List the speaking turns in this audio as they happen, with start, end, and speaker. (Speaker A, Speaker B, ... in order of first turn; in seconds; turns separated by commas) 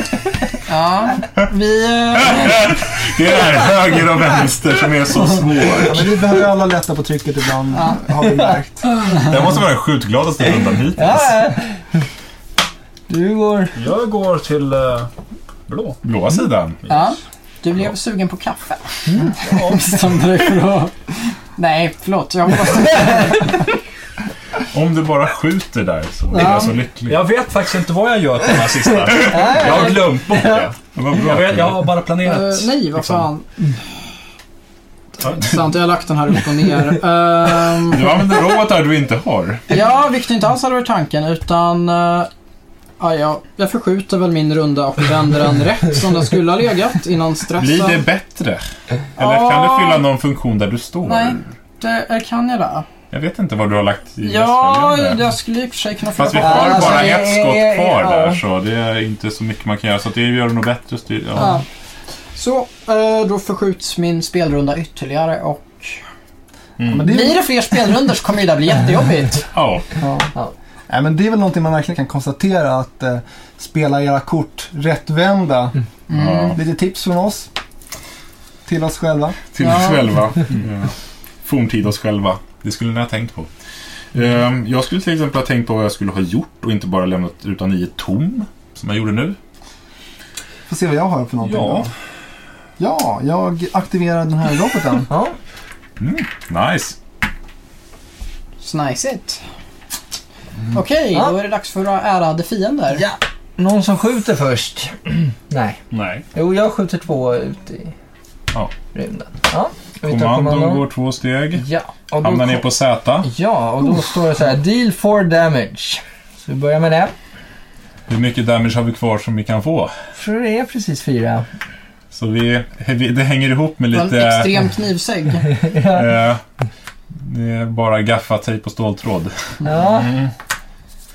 Speaker A: 0.7-2.7, Speaker B: 2.4-6.1, Speaker C: 5.8-8.9, Speaker B: 9.1-11.5, Speaker D: 10.9-11.8, Speaker D: 13.1-13.8, Speaker E: 13.7-15.1, Speaker E: 15.7-16.0, Speaker B: 16.0-16.8, Speaker A: 16.9-21.0, Speaker E: 19.4-20.0, Speaker A: 21.5-23.6, Speaker B: 24.7-27.2, Speaker A: 26.3-26.8, Speaker E: 26.3-33.3, Speaker D: 29.2-30.7, Speaker B: 30.8-31.9, Speaker A: 32.2-33.7, Speaker A: 35.2-38.2, Speaker E: 35.2-35.6, Speaker B: 37.8-39.6, Speaker A: 39.7-42.3, Speaker A: 43.0-48.0, Speaker B: 47.6-48.6, Speaker A: 49.2-50.0, Speaker B: 49.2-51.5, Speaker A: 51.0-52.9, Speaker B: 53.1-55.2, Speaker A: 54.2-57.2, Speaker B: 56.1-61.6, Speaker D: 56.4-58.4, Speaker A: 61.4-61.6, Speaker A: 62.3-66.0, Speaker E: 66.8-67.1, Speaker C: 66.9-67.4, Speaker A: 67.0-69.5, Speaker B: 69.5-69.9, Speaker C: 70.0-70.3, Speaker C: 70.9-75.8, Speaker A: 76.1-76.6, Speaker B: 76.1-76.6, Speaker C: 76.5-77.5, Speaker C: 78.7-79.5, Speaker B: 79.5-80.9, Speaker A: 79.6-80.0, Speaker B: 81.4-83.5, Speaker B: 84.1-89.4, Speaker C: 90.7-91.9, Speaker E: 91.4-91.9, Speaker C: 92.8-95.1, Speaker D: 95.1-95.3, Speaker B: 96.0-97.0, Speaker A: 98.6-99.4, Speaker A: 100.7-103.0, Speaker D: 102.9-105.8, Speaker E: 105.9-106.2, Speaker D: 106.3-107.9, Speaker D: 108.9-110.8, Speaker B: 110.0-113.3, Speaker D: 111.6-112.6, Speaker D: 113.2-117.1, Speaker B: 118.1-119.9, Speaker D: 120.2-121.5, Speaker B: 122.1-124.6, Speaker A: 123.9-125.5, Speaker D: 125.6-126.1, Speaker B: 125.8-126.4, Speaker B: 127.1-129.3, Speaker D: 129.6-130.2, Speaker E: 129.8-130.3